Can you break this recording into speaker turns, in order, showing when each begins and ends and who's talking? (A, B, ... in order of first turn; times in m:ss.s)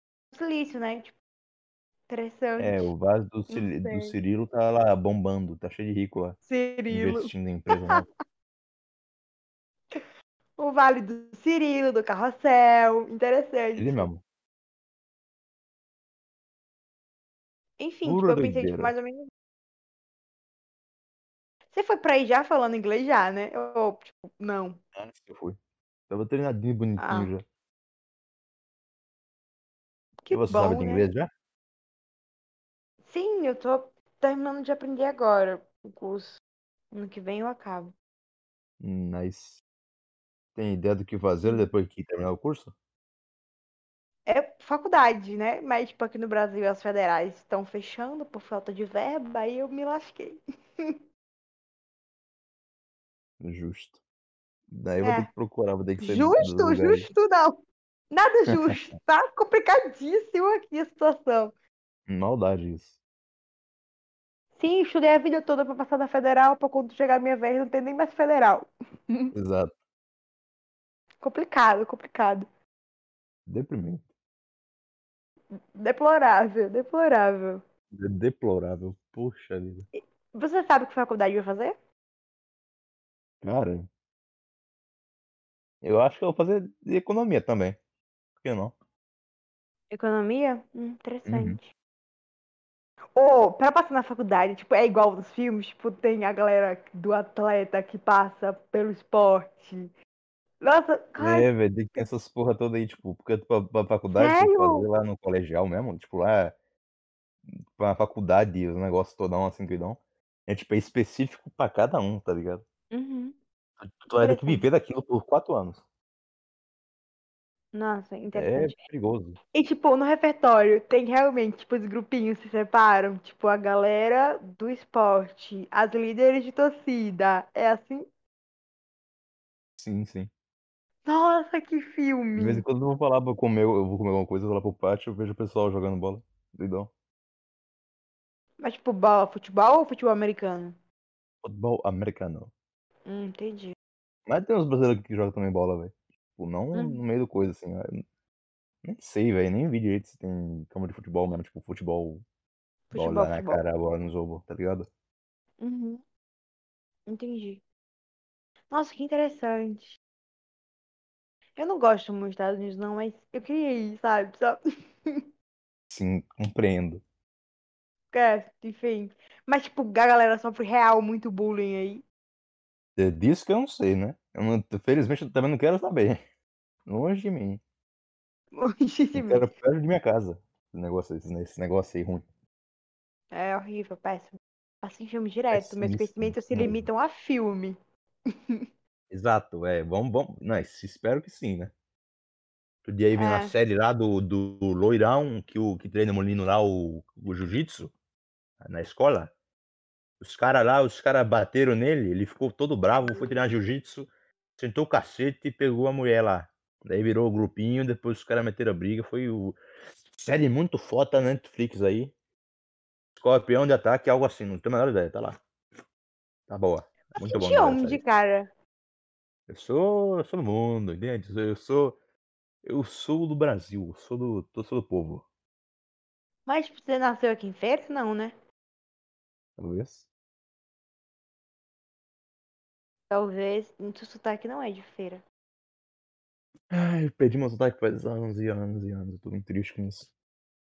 0:00.3-0:01.2 A
0:02.1-0:02.8 A
0:02.6-0:06.4 B
0:03.5-0:04.1 A
0:06.4-0:08.0 A
0:06.9-0:08.1 B
0:10.6-0:14.1 A
0:13.8-0:14.2 B
0:17.8-0:19.3 A
0:18.0-0:18.9 B
0:21.7-0:24.8 A
0:24.9-0:25.6 B
0:26.1-0:27.4 B
0:27.0-0:27.3 A
0:30.2-0:31.1 A
0:30.3-0:31.3 B
0:33.0-0:36.4 A
0:36.9-0:37.9 A
0:38.8-0:39.6 B
0:40.6-0:42.7 B
0:44.2-0:51.0 A
0:53.4-0:54.0 B
0:54.7-0:57.1 B
0:55.0-0:55.3 A
0:56.0-0:57.6 A
0:58.1-1:01.5 A
1:02.1-1:02.9 B
1:04.6-1:09.3 A
1:09.3-1:09.7 B
1:11.2-1:12.4 A
1:13.5-1:14.0 B
1:15.8-1:17.6 A
1:17.9-1:19.9 B
1:20.0-1:21.8 A
1:23.4-1:23.9 B
1:25.8-1:27.8 B
1:28.4-1:28.7 B
1:29.9-1:31.7 A
1:31.3-1:31.6 B
1:33.1-1:39.9 A
1:40.6-1:42.0 A
1:41.2-1:46.5 B
1:44.2-1:44.8 A
1:47.7-1:52.6 B
1:52.9-1:53.4 A
1:53.8-1:55.8 B
1:54.2-1:54.6 A
1:57.7-1:58.8 A
1:58.3-1:59.4 B
1:59.5-2:08.0 A
2:09.8-2:10.3 B
2:11.0-2:12.6 A
2:12.4-2:16.9 B
2:18.6-2:20.8 A
2:21.4-2:22.5 B
2:23.0-2:23.7 A
2:24.3-2:28.0 B
2:26.7-2:27.0 A
2:28.8-2:32.2 B
2:32.9-2:33.6 A
2:32.9-2:34.9 B
2:35.6-2:36.0 A
2:37.1-2:37.6 A
2:38.7-2:40.0 A
2:41.6-2:45.2 A
2:45.9-2:47.0 B
2:48.1-2:52.0 A
2:53.0-2:56.2 B
2:56.9-2:57.6 B
2:58.5-2:59.4 A
2:59.1-3:02.2 B
3:03.3-3:08.6 A
3:05.5-3:06.9 B
3:09.1-3:11.7 B
3:12.8-3:17.9 B
3:13.2-3:13.5 A
3:18.6-3:19.3 B
3:20.2-3:29.6 B
3:30.1-3:32.1 B
3:33.2-3:35.4 B
3:36.5-3:38.0 B
3:37.2-3:38.5 A
3:39.5-3:42.0 B
3:42.6-3:45.2 B
3:46.5-3:48.3 A
3:49.6-3:50.0 B
3:53.1-3:55.2 A
3:56.7-4:00.1 B